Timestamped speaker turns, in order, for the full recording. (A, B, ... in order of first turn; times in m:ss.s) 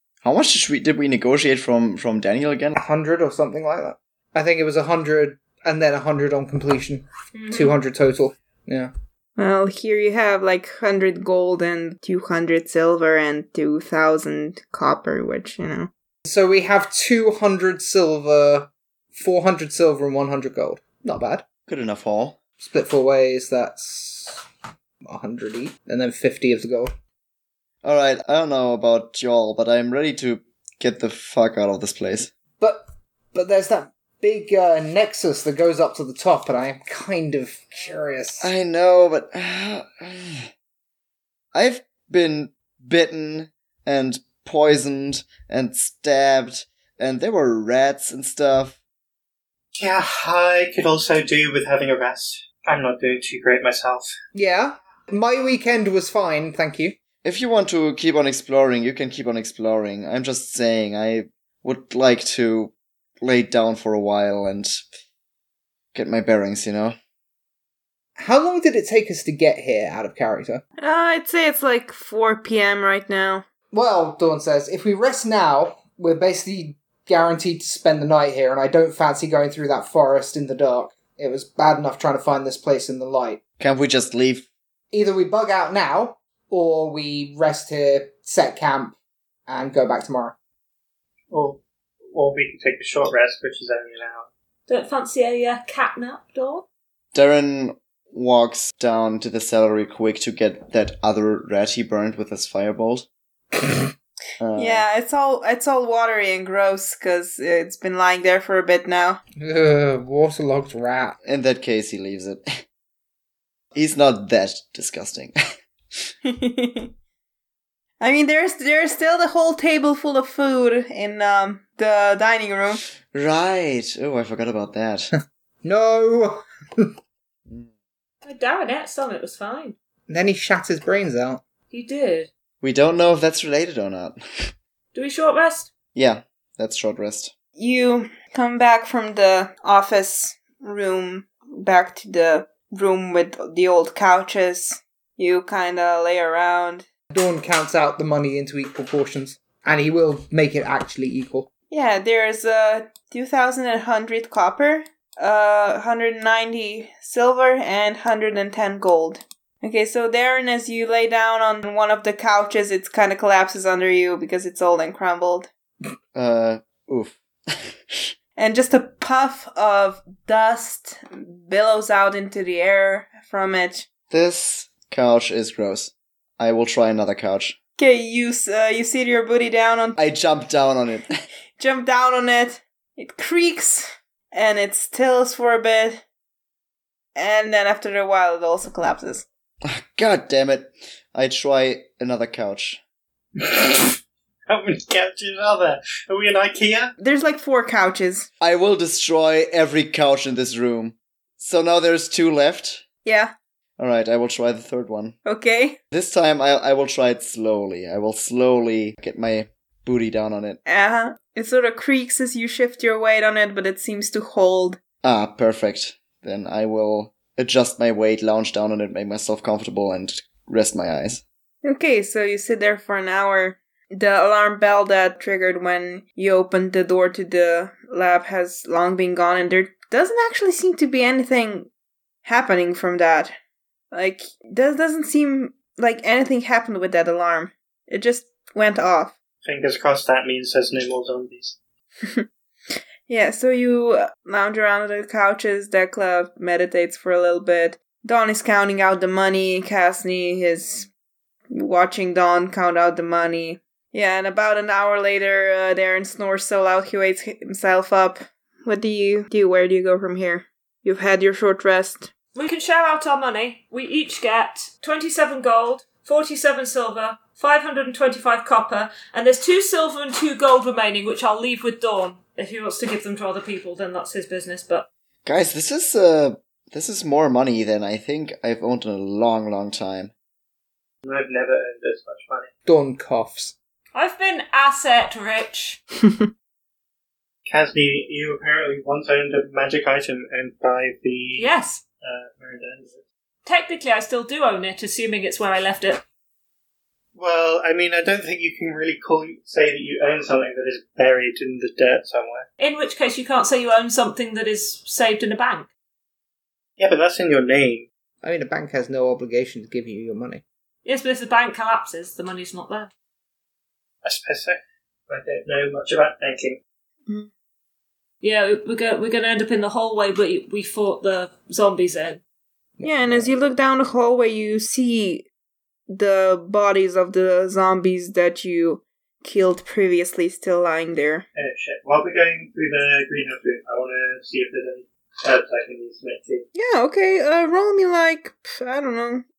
0:00.2-0:02.8 A
0:02.8-0:08.9 B
0:07.3-0:07.7 C
0:09.4-0:15.9 D
0:16.2-0:21.4 B
0:21.7-0:22.4 A
0:22.6-0:24.4 B
0:25.0-0:26.9 B
0:27.8-0:32.3 A
0:32.6-0:38.5 B
0:38.4-0:40.5 A
0:41.5-0:48.8 A
0:49.8-0:54.1 E
0:54.3-0:57.0 B
0:57.2-1:04.8 A
1:05.9-1:07.0 A
1:08.2-1:10.6 B
1:10.8-1:13.4 D
1:13.7-1:23.4 B
1:23.6-1:24.5 A
1:24.9-1:29.0 B
1:29.5-1:30.3 B
1:31.3-1:31.6 E
1:32.1-1:34.3 E
1:34.7-1:36.6 C
1:37.1-1:43.0 A
1:44.4-1:44.8 A
1:44.6-1:49.2 D
1:49.4-1:51.2 B
1:51.2-1:52.6 A
1:53.7-1:55.4 A
1:56.2-1:56.9 D
1:58.0-2:02.8 D
2:03.1-2:05.1 A
2:05.6-2:06.9 B
2:08.2-2:09.7 C
2:10.1-2:11.4 B
2:11.7-2:12.3 C
2:12.6-2:14.5 A
2:14.9-2:15.7 C
2:15.9-2:17.3 A
2:17.6-2:26.8 D
2:27.1-2:31.5 B
2:31.7-2:45.5 D
2:46.1-2:48.1 A
2:48.4-2:53.8 D
2:54.1-2:57.6 A
2:57.8-3:00.0 D
3:00.0-3:01.1 A
3:01.6-3:06.0 D
3:07.2-3:09.2 D
3:09.6-3:12.8 A
3:13.4-3:16.9 E
3:17.0-3:18.3 D
3:18.4-3:22.8 A
3:23.0-3:23.3 D
3:23.8-3:25.2 A
3:25.2-3:25.8 D
3:25.9-3:30.6 A
3:30.6-3:34.8 D
3:35.0-3:41.2 A
3:41.6-3:51.7 D
3:52.2-3:53.3 D
3:53.9-3:59.1 D
3:59.4-4:01.6 E
4:03.1-4:10.9 D
4:11.5-4:22.1 D
4:22.3-4:34.9 C
4:35.2-4:40.1 A
4:41.0-4:42.5 E
4:42.6-4:43.5 B
4:43.9-4:45.8 C
4:47.4-4:51.5 E
4:51.4-4:51.8 C
4:52.0-4:53.0 E
4:53.4-4:56.0 C
4:57.2-5:02.4 E
5:02.6-5:05.7 C
5:06.8-5:07.9 E
5:08.2-5:10.4 B
5:10.8-5:12.9 C
5:14.0-5:16.6 E
5:18.2-5:22.2 C
5:22.8-5:23.3 B
5:22.8-5:25.2 D
5:25.9-5:31.2 D
5:31.4-5:36.4 E
5:36.5-5:39.2 D